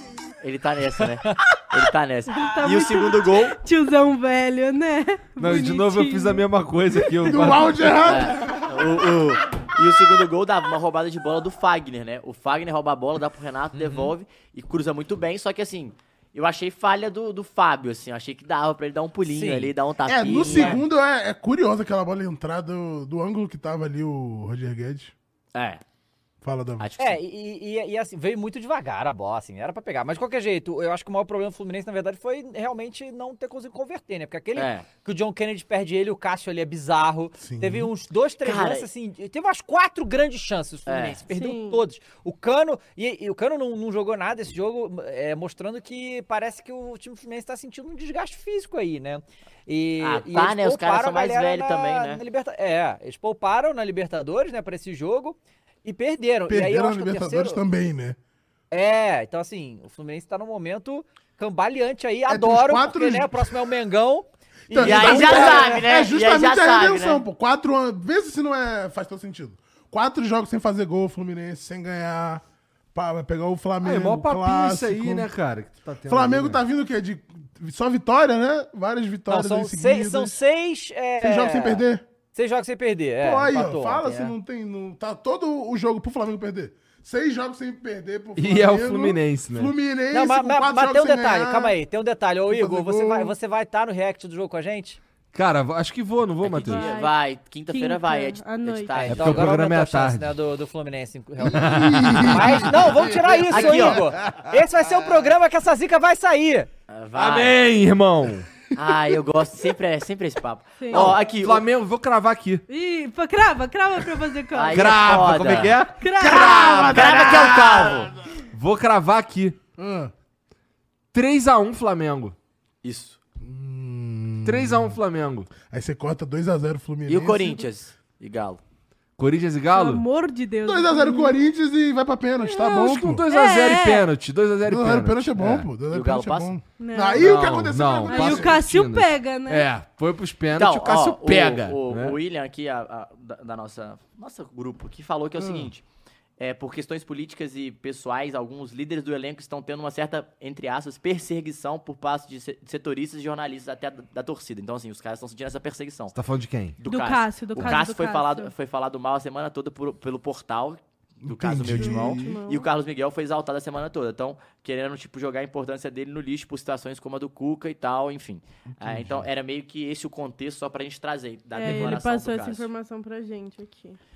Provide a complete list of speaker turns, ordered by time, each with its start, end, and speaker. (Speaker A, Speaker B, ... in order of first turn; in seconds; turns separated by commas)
Speaker A: 0.4-3.6, Speaker B: 2.3-7.6, Speaker C: 5.4-8.3, Speaker D: 7.3-9.1, Speaker A: 8.0-20.8, Speaker E: 13.8-14.1, Speaker E: 19.3-19.7, Speaker D: 20.1-25.1, Speaker E: 20.4-20.8, Speaker A: 25.6-25.8, Speaker D: 26.4-26.9, Speaker A: 26.8-27.2, Speaker E: 27.0-57.6, Speaker A: 34.6-34.9, Speaker D: 37.4-37.9, Speaker A: 38.4-38.9, Speaker A: 40.9-41.2, Speaker B: 41.3-41.8, Speaker A: 50.0-52.2, Speaker D: 56.5-58.2, Speaker E: 58.7-65.8, Speaker D: 62.3-63.6, Speaker D: 64.7-72.4, Speaker A: 64.8-67.2, Speaker D: 72.9-75.3, Speaker C: 73.8-76.6, Speaker D: 76.1-80.4, Speaker E: 79.3-84.3, Speaker D: 81.2-82.0, Speaker D: 83.2-91.8, Speaker C: 88.4-89.7, Speaker E: 90.1-95.0, Speaker D: 92.5-93.3, Speaker C: 95.3-96.9, Speaker A: 96.4-99.5, Speaker B: 96.6-97.2, Speaker B: 97.7-99.1, Speaker C: 99.1-100.4, Speaker E: 99.1-106.7, Speaker D: 101.4-104.5, Speaker C: 101.5-102.8, Speaker A: 103.3-104.0, Speaker A: 106.9-107.6, Speaker C: 107.2-108.5, Speaker A: 108.7-111.7, Speaker B: 110.8-111.2, Speaker C: 110.9-112.6, Speaker B: 112.7-115.3, Speaker A: 114.5-115.8, Speaker C: 114.7-117.8, Speaker B: 115.9-117.0, Speaker D: 116.2-118.1, Speaker A: 116.8-118.1, Speaker C: 118.5-119.6, Speaker D: 119.8-120.1, Speaker C: 121.1-122.4, Speaker A: 122.8-123.2, Speaker D: 123.4-125.0, Speaker C: 124.4-125.5, Speaker D: 125.7-127.6, Speaker A: 127.1-128.6, Speaker C: 129.2-130.1, Speaker B: 129.7-131.4, Speaker D: 130.6-133.3, Speaker B: 132.4-134.1, Speaker C: 132.6-135.7, Speaker D: 134.7-138.6, Speaker A: 135.9-136.6, Speaker B: 136.8-139.7, Speaker C: 137.2-142.2, Speaker A: 140.5-145.8, Speaker D: 145.4-145.7, Speaker A: 146.4-156.2, Speaker C: 156.1-156.8, Speaker A: 156.8-172.7, Speaker B: 156.9-158.5, Speaker D: 161.2-162.4, Speaker B: 161.8-162.7, Speaker D: 168.8-169.3, Speaker B: 171.5-174.0